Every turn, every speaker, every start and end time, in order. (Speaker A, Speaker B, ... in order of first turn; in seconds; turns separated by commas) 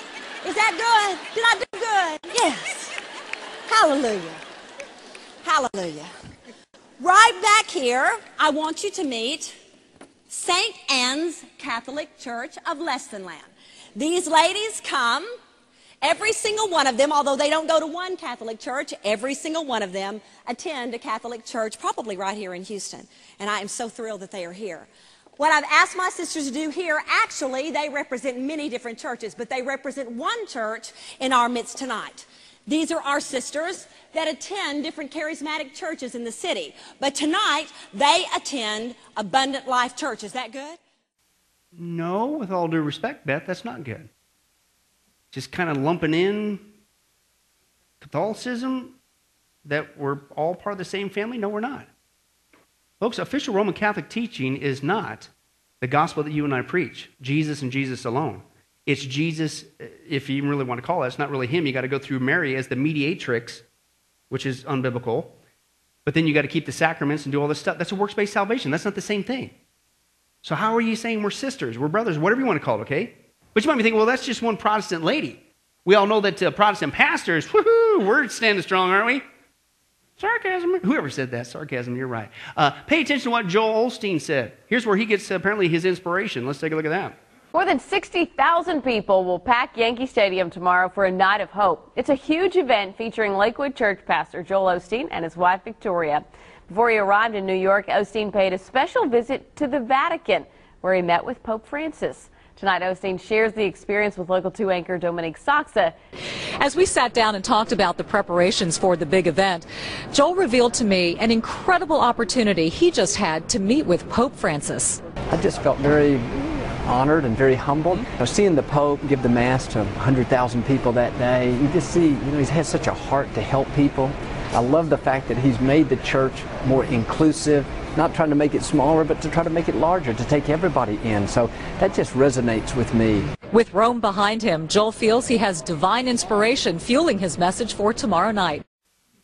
Speaker A: 0.4-2.9, Speaker A: 3.7-4.4, Speaker A: 5.4-6.1, Speaker A: 7.0-9.6, Speaker A: 10.3-15.3, Speaker A: 16.0-40.8, Speaker B: 41.8-44.1, Speaker B: 45.3-46.7, Speaker B: 48.0-49.0, Speaker B: 49.7-51.9, Speaker B: 53.0-55.3, Speaker B: 55.8-63.6, Speaker B: 64.3-65.3, Speaker B: 66.1-69.5, Speaker B: 70.4-79.2, Speaker B: 80.2-87.2, Speaker C: 87.7-96.2, Speaker C: 96.8-105.9, Speaker D: 106.6-115.0, Speaker E: 115.3-133.3, Speaker D: 133.5-138.6